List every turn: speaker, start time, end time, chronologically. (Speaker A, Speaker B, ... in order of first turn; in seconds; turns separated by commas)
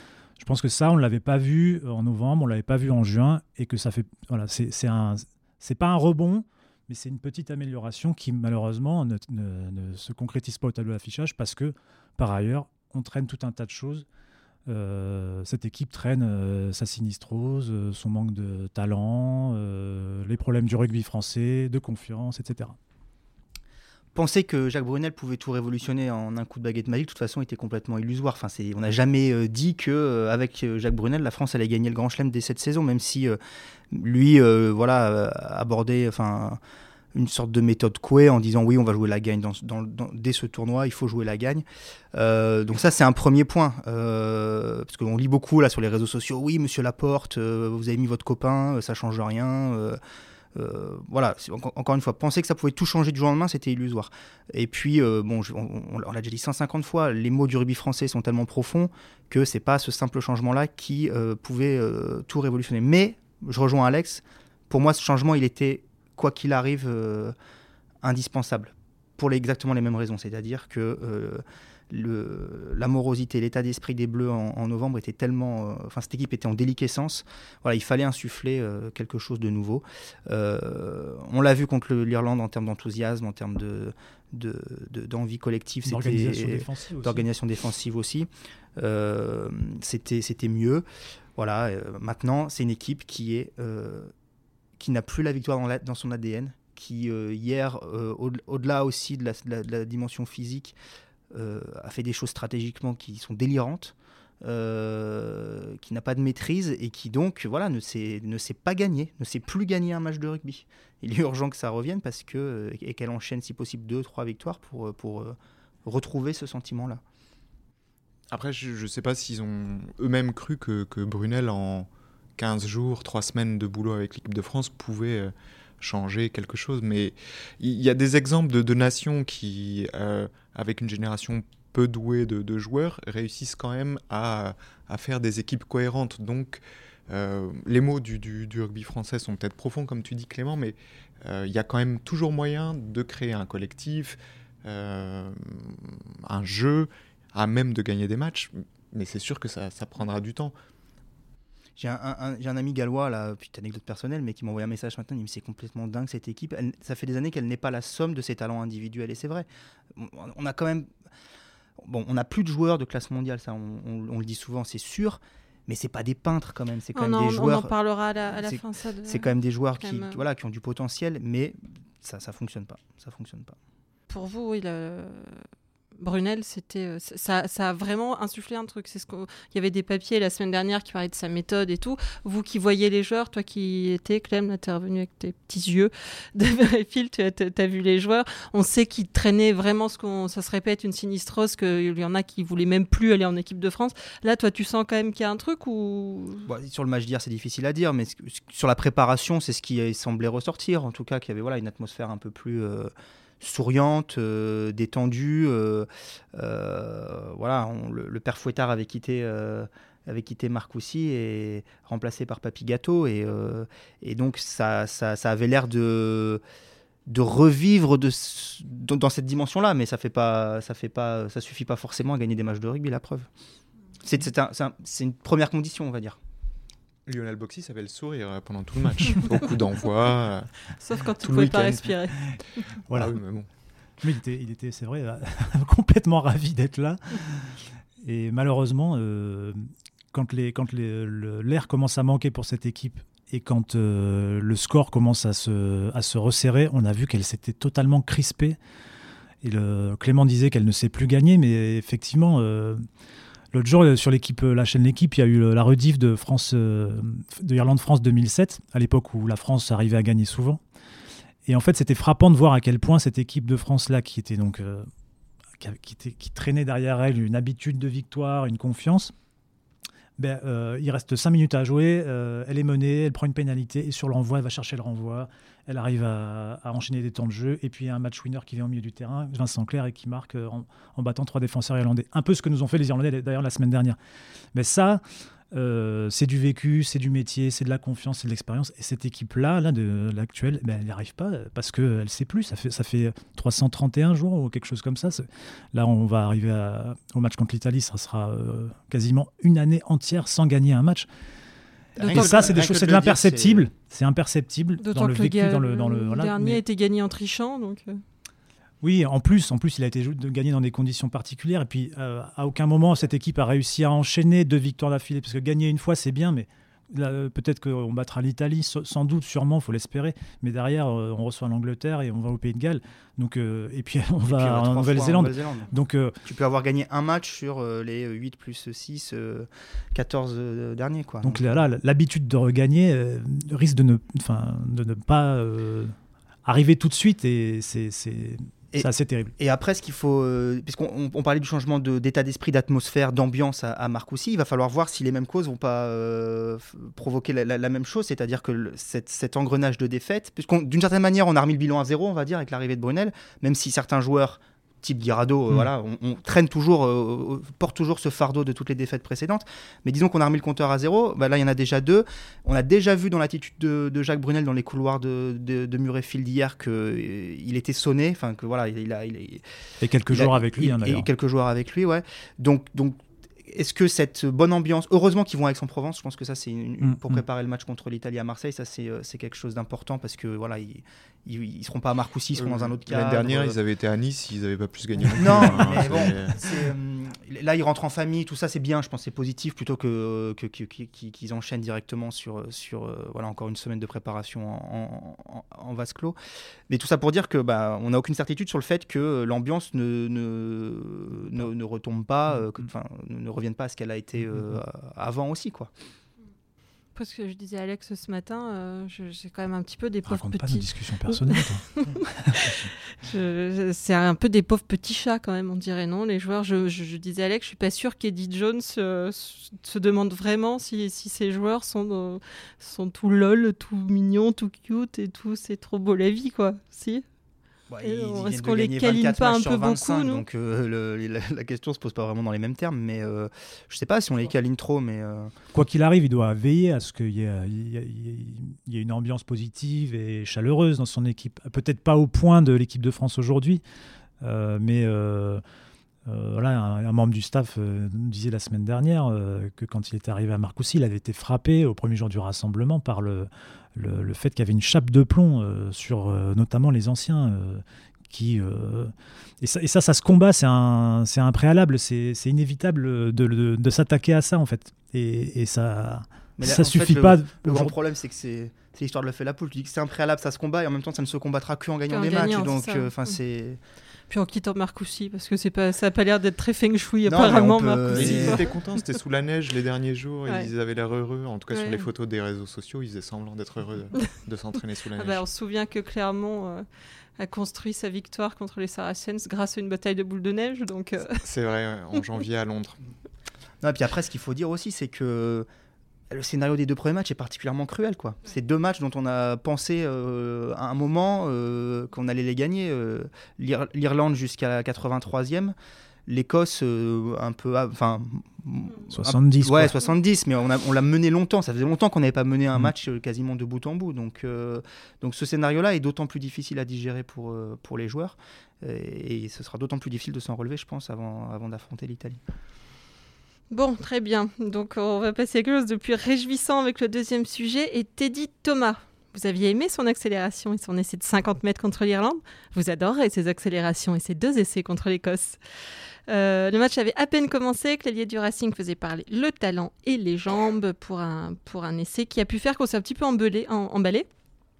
Speaker A: 0.4-14.1, Speaker A: 14.7-22.8, Speaker B: 24.1-33.4, Speaker B: 33.9-36.6, Speaker B: 37.1-50.0, Speaker B: 50.5-67.3, Speaker B: 68.0-90.8, Speaker A: 85.8-87.2, Speaker B: 91.3-94.1, Speaker B: 94.8-100.8, Speaker B: 101.3-117.0, Speaker C: 118.3-150.5, Speaker B: 151.8-160.9, Speaker B: 161.8-167.7, Speaker D: 166.9-169.3, Speaker B: 168.4-173.6, Speaker D: 169.8-170.2, Speaker D: 174.1-175.4, Speaker D: 176.0-196.5, Speaker B: 196.4-216.4, Speaker B: 217.1-223.3, Speaker B: 224.0-226.2, Speaker C: 227.1-230.7, Speaker D: 230.8-232.7, Speaker C: 231.2-231.9, Speaker A: 232.9-233.2, Speaker C: 232.9-233.5, Speaker A: 234.0-248.6, Speaker A: 249.4-252.8, Speaker A: 253.5-260.6, Speaker A: 261.4-264.9, Speaker A: 265.6-269.1, Speaker A: 270.2-284.0, Speaker A: 284.5-301.1, Speaker B: 301.9-303.7, Speaker D: 302.0-302.6, Speaker A: 302.1-306.6, Speaker D: 304.8-308.0, Speaker A: 308.8-326.2, Speaker B: 324.2-325.7, Speaker B: 326.2-331.5, Speaker A: 331.2-335.9, Speaker A: 336.4-339.3, Speaker B: 338.7-369.4, Speaker A: 369.8-371.1, Speaker B: 370.1-383.6, Speaker A: 376.8-377.2, Speaker C: 382.4-386.5, Speaker B: 385.0-396.2, Speaker B: 396.7-405.7, Speaker D: 406.9-427.0, Speaker A: 410.1-412.7, Speaker B: 427.7-435.3, Speaker D: 427.8-430.2, Speaker A: 435.5-443.6, Speaker A: 444.2-445.4, Speaker A: 446.1-467.7, Speaker B: 466.4-473.6, Speaker D: 471.9-472.9, Speaker D: 474.1-478.8, Speaker B: 477.1-478.4, Speaker C: 477.9-485.2, Speaker D: 481.5-481.9, Speaker D: 484.9-486.6, Speaker D: 487.2-491.2, Speaker C: 491.2-492.8, Speaker B: 493.6-495.4, Speaker B: 496.1-505.5, Speaker B: 506.1-522.2, Speaker A: 508.9-509.7, Speaker D: 523.5-535.4, Speaker D: 536.1-544.1